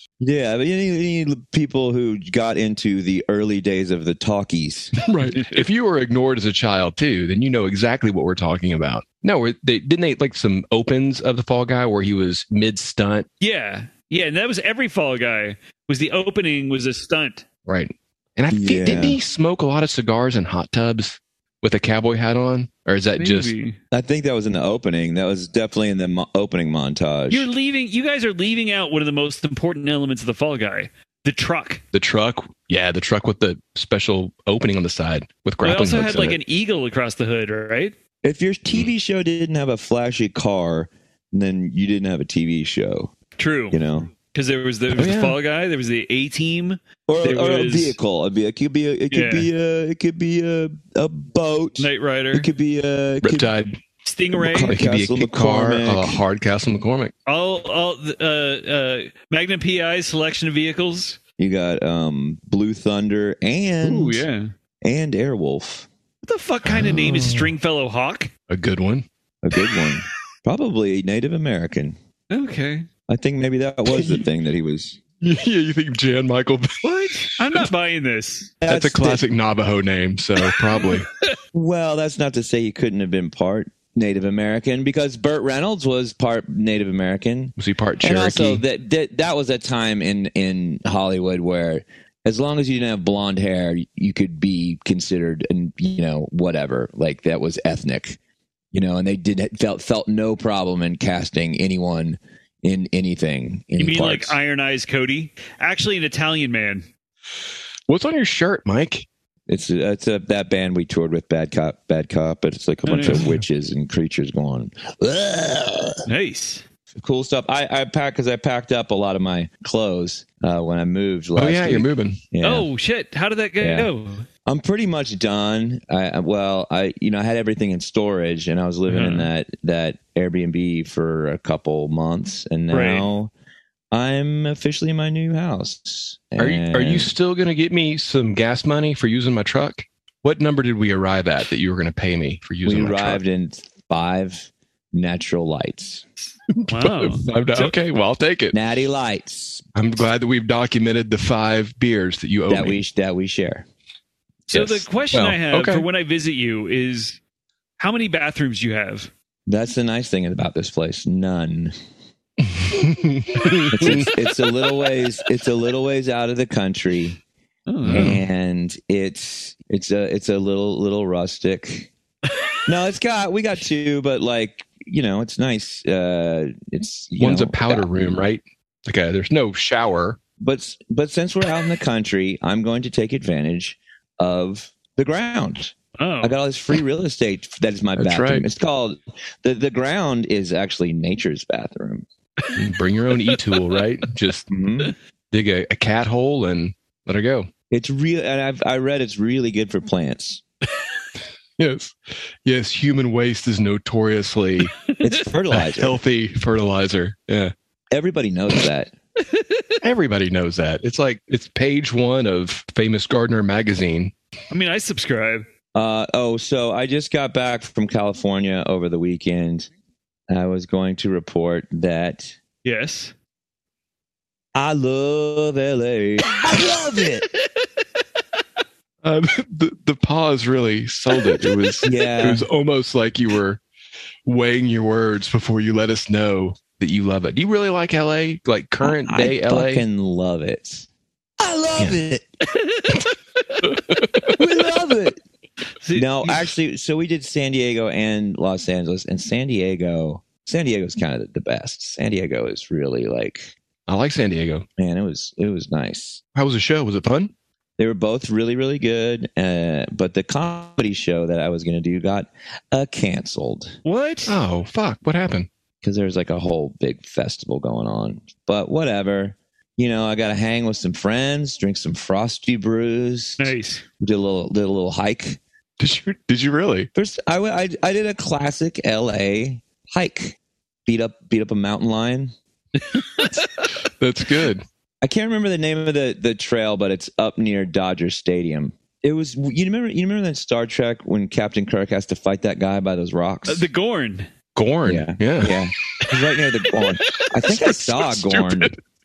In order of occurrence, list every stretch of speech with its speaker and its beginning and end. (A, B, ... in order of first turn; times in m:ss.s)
0:00.2-0:05.0 A
0:05.0-0:13.3 B
0:05.2-0:05.6 C
0:13.4-0:17.4 C
0:17.7-0:23.5 B
0:18.5-0:19.2 A
0:23.2-0:23.8 C
0:23.9-0:27.5 A
0:27.3-0:31.8 C
0:31.9-0:36.4 B
0:35.6-0:38.0 C
0:38.2-0:43.1 A
0:43.4-0:48.0 C
0:43.7-0:44.1 A
0:45.0-0:45.4 B
0:47.1-0:53.5 A
0:49.1-0:49.5 C
0:51.8-0:52.5 C
0:53.2-0:53.8 B
0:54.0-0:54.8 C
0:54.4-0:56.2 A
0:54.6-0:57.1 B
0:57.3-1:01.2 C
1:01.4-1:04.2 A
1:03.8-1:04.5 C
1:04.8-1:05.9 A
1:06.2-1:08.3 C
1:06.6-1:07.5 B
1:08.5-1:09.1 B
1:09.4-1:12.0 A
1:12.3-1:12.9 C
1:13.1-1:15.0 A
1:15.2-1:17.7 B
1:16.8-1:18.5 C
1:18.6-1:19.2 A
1:18.7-1:21.1 B
1:21.5-1:38.2 A
1:27.6-1:28.6 B
1:38.7-1:44.4 A
1:43.8-1:46.9 C
1:47.9-1:49.1 B
1:49.5-1:56.0 A
1:52.9-1:53.3 C
1:56.1-1:56.6 C
1:57.0-2:02.7 A
2:01.4-2:02.2 B
2:02.4-2:04.3 C
2:03.6-2:03.9 A
2:04.5-2:13.3 A
2:08.9-2:09.3 C
2:12.7-2:13.1 C
2:13.9-2:17.1 A
2:16.4-2:23.2 B
2:22.6-2:26.0 A
2:26.5-2:28.6 B
2:26.7-2:27.8 C
2:28.5-2:29.7 A
2:29.8-2:32.8 B
2:32.5-2:33.6 A
2:34.5-2:35.9 B
2:34.5-2:37.2 C
2:37.8-2:39.1 C
2:39.5-2:41.8 A
2:42.4-2:44.1 B
2:43.7-2:47.2 A
2:47.7-2:48.2 C
2:47.9-2:48.2 B
2:47.9-2:51.9 A
2:52.7-2:57.9 A
2:57.2-3:00.2 B
3:00.4-3:12.1 A
3:06.0-3:06.4 C
3:08.0-3:08.4 B
3:12.5-3:14.5 B
3:13.3-3:13.7 C
3:14.5-3:15.0 A
3:15.3-3:17.5 B
3:17.7-3:20.4 A
3:21.6-3:24.8 B
3:25.0-3:26.0 A
3:25.5-3:27.5 B
3:27.9-3:28.9 A
3:29.2-3:29.8 C
3:29.8-3:34.1 B
3:34.5-3:35.5 C
3:35.8-3:39.7 A
3:40.3-3:42.4 A
3:42.6-3:43.1 C
3:44.6-3:47.3 A
3:49.0-3:53.6 B
3:51.8-3:52.5 A
3:54.3-3:59.8 B
3:58.8-4:00.9 A
4:01.4-4:02.3 A
4:02.5-4:03.6 C
4:03.6-4:04.4 B
4:04.4-4:05.2 A
4:05.8-4:06.5 C
4:06.0-4:13.5 A
4:13.9-4:14.7 B
4:14.8-4:16.2 A
4:16.4-4:17.3 B
4:17.8-4:23.8 A
4:23.8-4:24.4 C
4:24.3-4:25.5 B
4:25.8-4:35.4 A
4:33.4-4:33.8 C
4:35.8-4:36.9 B
4:37.0-4:42.4 A
4:42.8-4:43.8 C
4:44.0-4:44.6 B
4:45.0-4:53.7 A
4:53.5-4:54.3 C
4:54.6-4:55.6 B
4:54.8-4:58.7 A
4:57.1-4:58.2 C
4:58.3-4:58.7 B